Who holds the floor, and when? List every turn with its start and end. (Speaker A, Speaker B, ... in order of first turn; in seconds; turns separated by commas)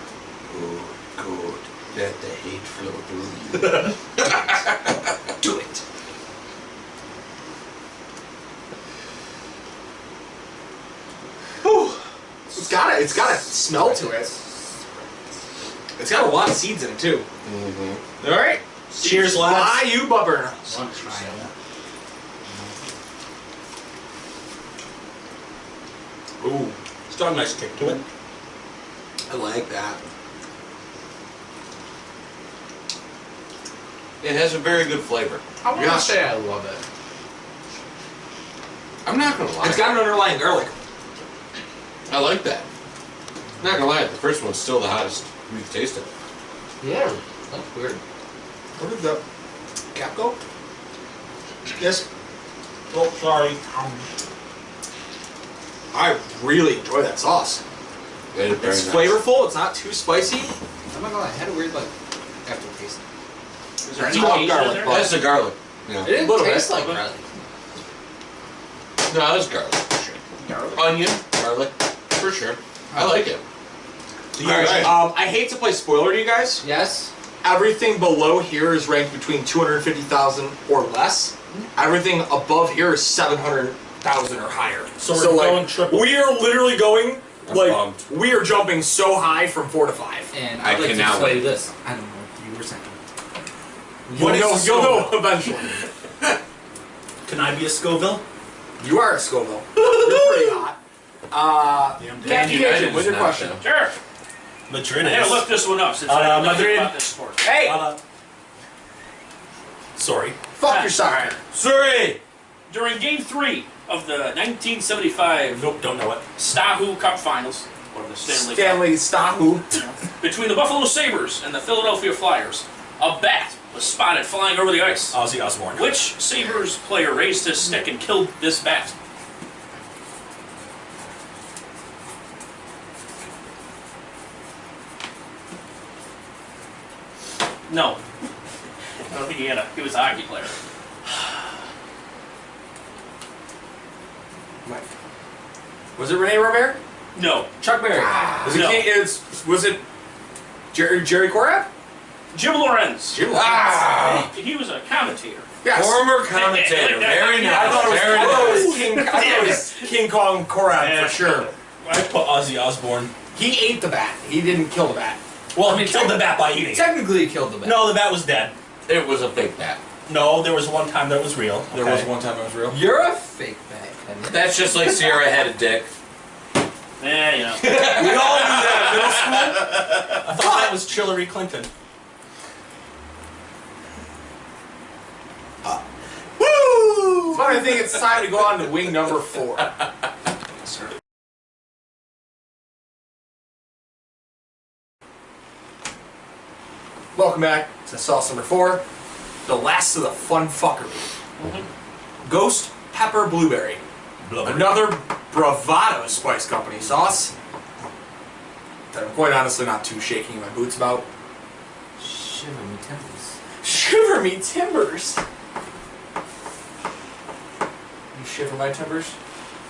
Speaker A: 0.5-4.7, Speaker B: 3.6-3.9, Speaker C: 5.4-5.8, Speaker D: 11.6-14.3, Speaker C: 13.5-15.0, Speaker D: 16.0-17.2, Speaker A: 17.4-18.0, Speaker D: 18.2-18.6, Speaker B: 18.9-19.9, Speaker E: 19.0-19.3, Speaker D: 19.2-20.8, Speaker C: 20.7-21.5, Speaker C: 22.5-22.7, Speaker D: 26.4-26.8, Speaker B: 27.1-28.0, Speaker D: 29.3-30.0, Speaker A: 34.2-36.1, Speaker C: 35.6-36.8, Speaker A: 39.0-40.1, Speaker D: 39.6-40.7, Speaker A: 42.1-42.6, Speaker A: 43.6-46.1, Speaker C: 46.8-48.0, Speaker D: 48.8-49.2, Speaker D: 49.9-50.4, Speaker D: 51.8-52.1, Speaker B: 52.9-53.6, Speaker C: 53.7-54.0, Speaker D: 55.9-57.6, Speaker A: 58.3-59.2, Speaker D: 58.5-60.5, Speaker C: 60.9-61.9, Speaker C: 62.4-63.0, Speaker E: 63.8-65.2, Speaker D: 63.9-65.2, Speaker A: 64.1-66.2, Speaker C: 66.0-67.2, Speaker D: 66.1-66.9, Speaker A: 69.1-70.1, Speaker E: 70.4-70.9, Speaker A: 70.7-73.4, Speaker C: 72.9-73.3, Speaker B: 74.3-75.0, Speaker D: 74.4-76.6, Speaker A: 74.5-74.9, Speaker C: 76.6-77.1, Speaker D: 77.4-90.3, Speaker B: 85.0-86.2, Speaker A: 87.4-88.1, Speaker C: 90.3-93.0, Speaker A: 90.6-91.5, Speaker D: 94.1-95.8, Speaker B: 94.1-95.3, Speaker B: 97.2-98.2, Speaker D: 98.8-100.8, Speaker B: 99.8-100.3, Speaker D: 101.3-103.6, Speaker B: 102.0-102.8, Speaker A: 102.2-103.6, Speaker E: 103.6-104.0, Speaker B: 104.7-105.5, Speaker E: 105.0-107.5, Speaker B: 106.1-106.9, Speaker D: 107.4-107.9, Speaker B: 107.5-108.0, Speaker B: 110.0-110.4, Speaker D: 110.5-111.4, Speaker E: 110.6-111.3, Speaker A: 111.5-112.2, Speaker E: 112.7-115.6, Speaker B: 115.5-116.2, Speaker E: 116.4-118.9, Speaker D: 118.2-119.7, Speaker E: 120.2-125.2, Speaker B: 125.1-125.9, Speaker E: 125.7-128.9, Speaker E: 137.7-138.0, Speaker E: 139.1-140.5, Speaker D: 146.0-146.8, Speaker E: 147.1-147.5, Speaker D: 147.6-149.8, Speaker A: 148.0-148.6, Speaker E: 148.4-148.9, Speaker D: 150.7-151.7, Speaker E: 152.3-153.2, Speaker D: 153.1-154.0, Speaker A: 153.2-154.3, Speaker E: 153.9-155.5, Speaker D: 155.6-156.2, Speaker A: 155.7-158.8, Speaker E: 156.3-159.9, Speaker D: 157.4-161.5, Speaker B: 160.7-163.1, Speaker D: 163.3-165.2, Speaker B: 165.5-167.1, Speaker C: 165.6-167.9, Speaker B: 167.6-168.6, Speaker A: 168.9-169.8, Speaker B: 170.1-172.1, Speaker D: 171.7-172.8, Speaker C: 172.7-175.2, Speaker A: 174.3-175.9, Speaker E: 177.0-177.7, Speaker A: 177.6-180.2, Speaker D: 177.7-180.7, Speaker B: 180.2-181.7, Speaker B: 186.4-187.4, Speaker D: 187.3-189.7, Speaker D: 197.1-198.8, Speaker D: 199.4-201.1, Speaker E: 201.4-201.7, Speaker D: 202.2-203.8, Speaker B: 204.2-204.9, Speaker D: 204.4-207.3, Speaker D: 208.9-211.1, Speaker C: 212.0-213.3, Speaker D: 213.6-215.2, Speaker D: 218.1-219.1